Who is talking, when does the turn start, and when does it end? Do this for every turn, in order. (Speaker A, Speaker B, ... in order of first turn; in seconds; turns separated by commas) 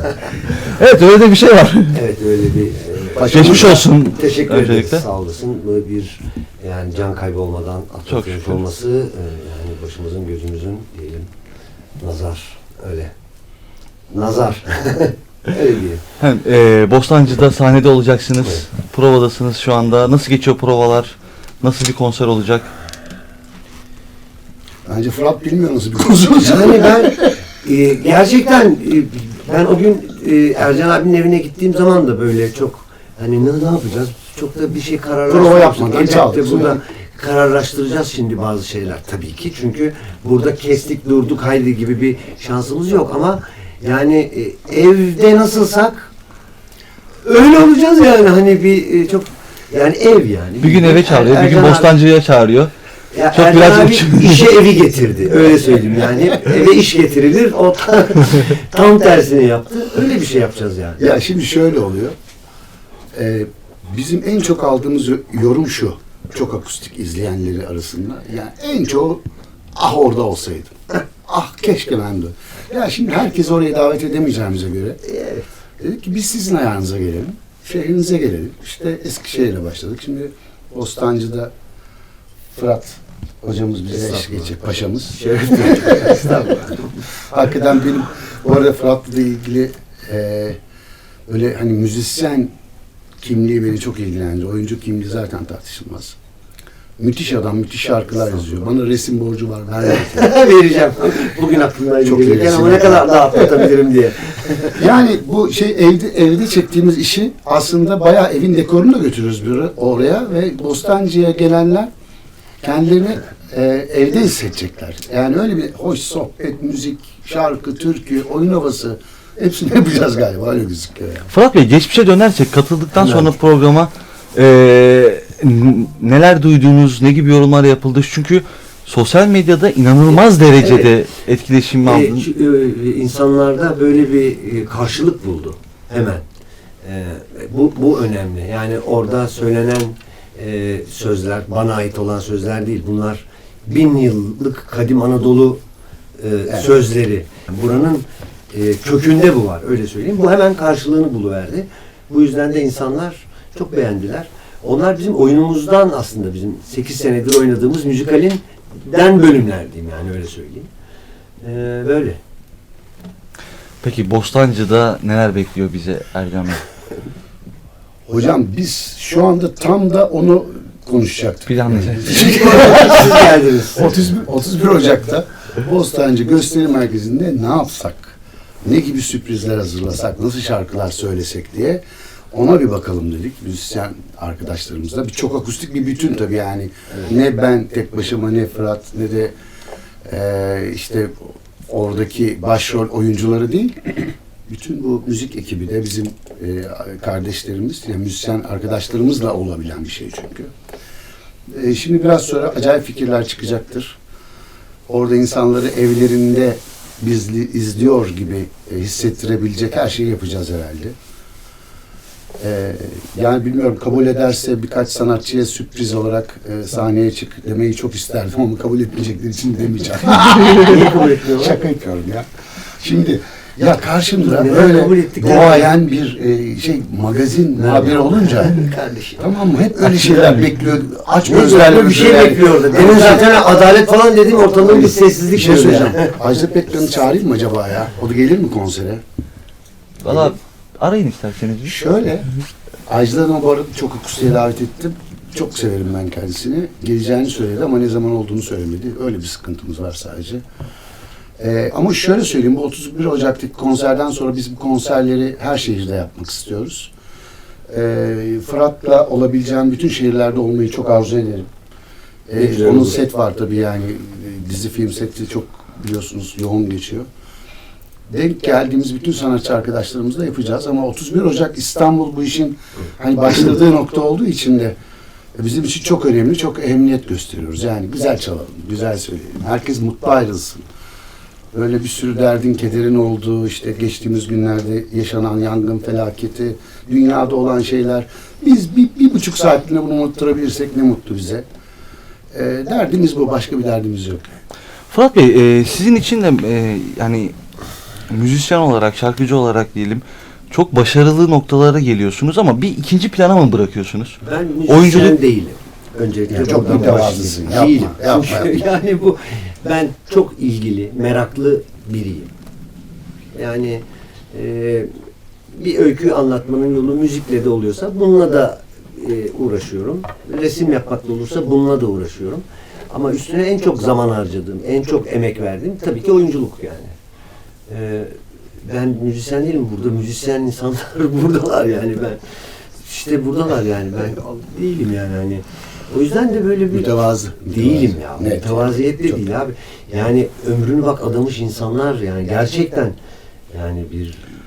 Speaker A: 0.5-2.0, Speaker B: 1.9-11.3, Speaker C: 3.2-3.8, Speaker A: 3.3-5.0, Speaker A: 8.1-8.6, Speaker B: 12.0-13.1, Speaker B: 14.1-16.0, Speaker A: 16.2-22.7, Speaker C: 24.9-27.3, Speaker B: 26.4-46.1, Speaker C: 35.3-36.8, Speaker B: 47.2-52.0, Speaker A: 50.6-52.7, Speaker B: 53.1-61.2, Speaker A: 53.3-54.5, Speaker C: 61.0-62.1, Speaker C: 63.1-69.2, Speaker C: 69.8-75.0, Speaker B: 75.0-75.5, Speaker C: 75.8-81.5, Speaker C: 82.5-86.4, Speaker B: 83.9-87.0, Speaker C: 87.1-90.6, Speaker C: 91.3-92.5, Speaker C: 93.2-96.2, Speaker C: 97.0-100.3, Speaker B: 99.8-104.8, Speaker C: 102.0-103.5, Speaker C: 104.7-111.9, Speaker C: 112.6-121.3, Speaker A: 121.3-132.3, Speaker B: 123.0-123.3, Speaker B: 130.1-130.9, Speaker B: 131.8-136.2, Speaker B: 136.8-145.6, Speaker B: 146.2-160.7, Speaker B: 161.4-162.2, Speaker A: 163.8-166.7, Speaker C: 168.1-189.3, Speaker A: 171.5-172.3, Speaker B: 172.1-174.0, Speaker C: 190.1-200.5, Speaker C: 201.5-204.0, Speaker C: 204.9-210.9, Speaker C: 212.4-222.3, Speaker B: 220.6-221.6, Speaker C: 222.8-228.6, Speaker B: 224.2-225.7, Speaker B: 227.6-229.2, Speaker C: 229.2-233.3, Speaker B: 229.9-230.2, Speaker B: 231.3-236.2, Speaker C: 234.7-239.0, Speaker A: 240.0-241.8, Speaker C: 241.6-242.3, Speaker C: 242.9-250.4, Speaker C: 251.4-256.9, Speaker C: 257.7-261.5, Speaker C: 262.3-267.1, Speaker B: 262.4-263.0, Speaker C: 268.1-274.8, Speaker C: 275.4-280.6, Speaker C: 281.5-291.4, Speaker C: 292.3-294.2, Speaker A: 294.9-297.4, Speaker A: 298.1-305.2, Speaker B: 304.2-312.3, Speaker C: 306.3-308.6, Speaker B: 313.3-314.9, Speaker B: 315.5-326.9, Speaker B: 327.7-332.2, Speaker B: 332.9-342.9, Speaker C: 336.7-339.2, Speaker B: 343.5-344.2